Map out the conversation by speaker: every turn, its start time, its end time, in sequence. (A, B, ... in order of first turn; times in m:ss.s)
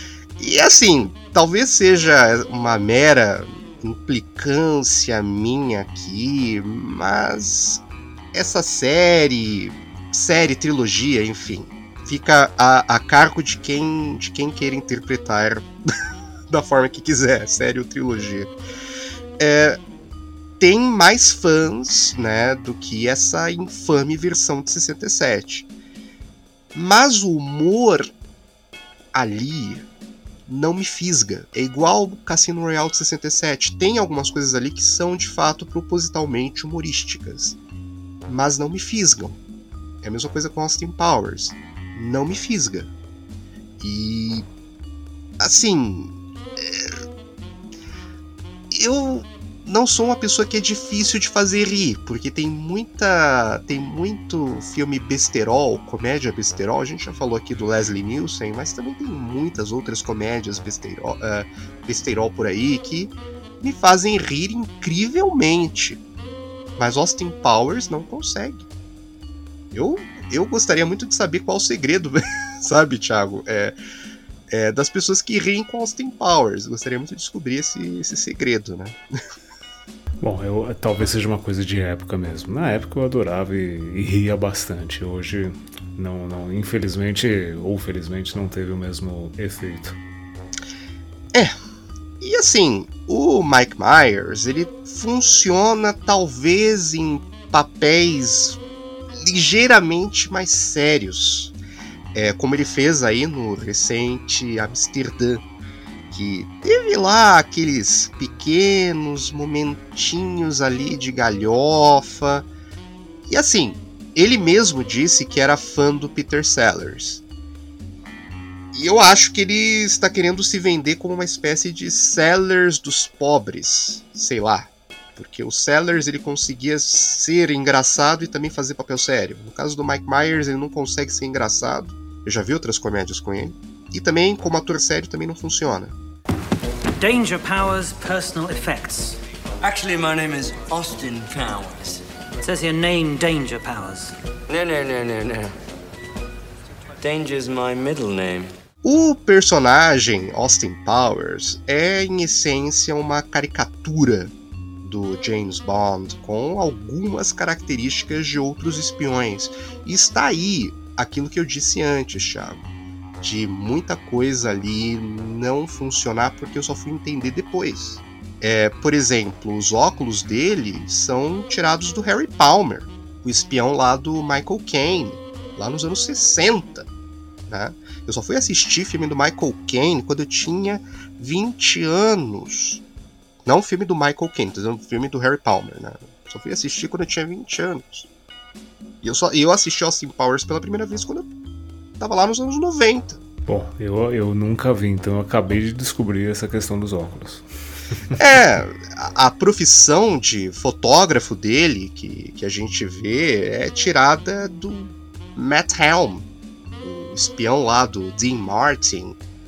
0:00.4-0:07.8 A
0:08.3-0:15.6 A
0:16.5-0:18.5 A
0:19.4-0:19.8 A
0:20.6-0:25.7 A
0:26.7-0:28.1 A
0:29.1-0:29.8 A
0:30.5-0:37.6 A
0:38.3-0:39.4 A
0:40.0-0:42.9 A
0:43.8-0:44.5 A
0:45.4-0:47.0 A
0:48.7-1:06.0 A
1:06.8-1:08.7 A
1:09.7-1:13.7 A
1:14.5-1:19.0 A
1:20.2-1:30.0 B
1:32.2-1:38.6 A
1:39.1-1:41.5 A
1:42.1-1:45.4 A
1:46.1-1:52.5 A
1:53.3-1:57.2 A
1:58.7-2:15.9 A
2:17.0-2:19.2 C
2:19.6-2:22.0 D
2:22.4-2:24.1 C
2:24.5-2:25.5 D
2:27.0-2:28.5 D
2:28.8-2:42.6 A
2:43.2-2:56.9 A
2:57.5-3:02.8 A
3:03.4-3:08.1 A
3:09.0-3:11.3 A
3:12.0-3:13.2 A
3:13.5-3:18.0 B
3:18.2-3:26.3 A
3:26.8-3:29.2 A